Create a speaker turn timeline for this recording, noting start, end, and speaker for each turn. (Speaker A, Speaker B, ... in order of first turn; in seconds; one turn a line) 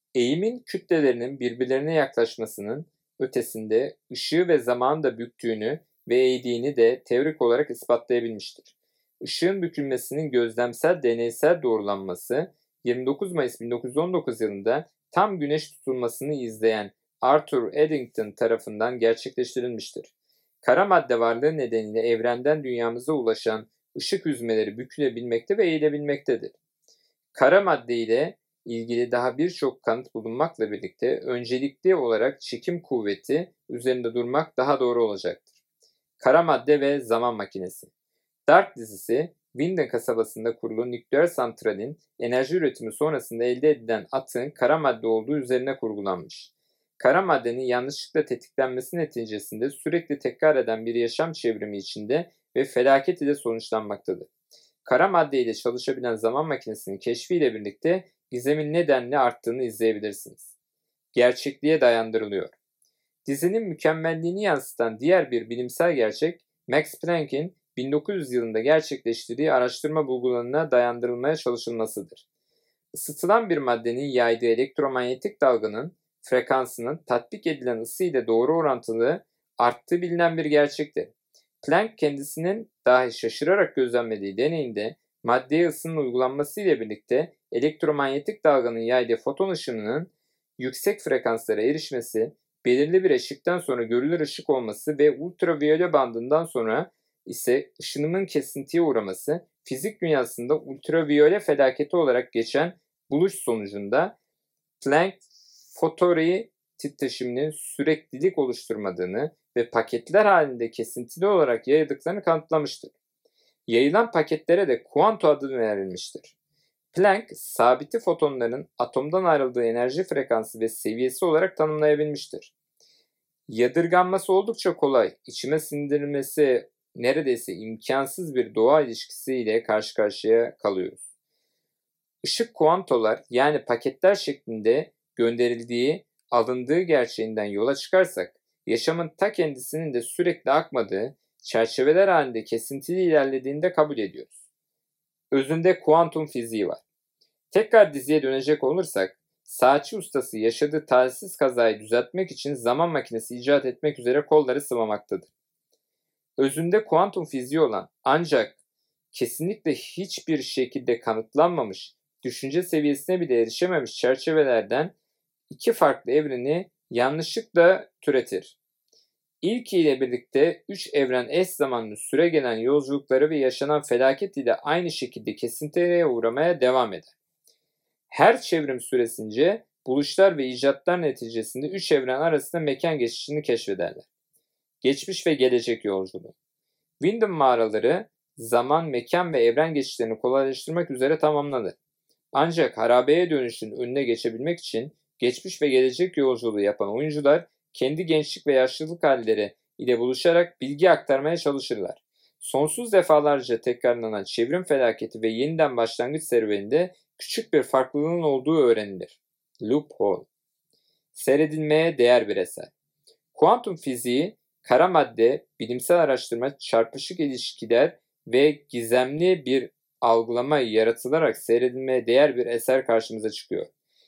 Speaker A: 0.1-26.6
Speaker A: 27.3-35.5
Speaker A: 36.2-37.9
Speaker A: 38.5-54.3
Speaker A: 54.9-60.5
Speaker A: 61.1-62.5
Speaker A: 63.2-72.2
Speaker A: 72.9-104.2
Speaker A: 104.8-112.9
Speaker A: 113.7-116.3
Speaker A: 116.9-122.5
Speaker A: 123.5-131.1
Speaker A: 132.2-144.3
Speaker A: 145.3-146.8
Speaker A: 147.5-155.3
Speaker A: 156.4-158.6
Speaker A: 159.1-164.9
Speaker A: 165.5-168.6
Speaker A: 169.4-177.1
Speaker A: 178.1-184.1
Speaker A: 184.8-186.3
Speaker A: 187.0-191.8
Speaker A: 192.3-210.3
Speaker A: 211.1-212.7
Speaker A: 213.3-223.7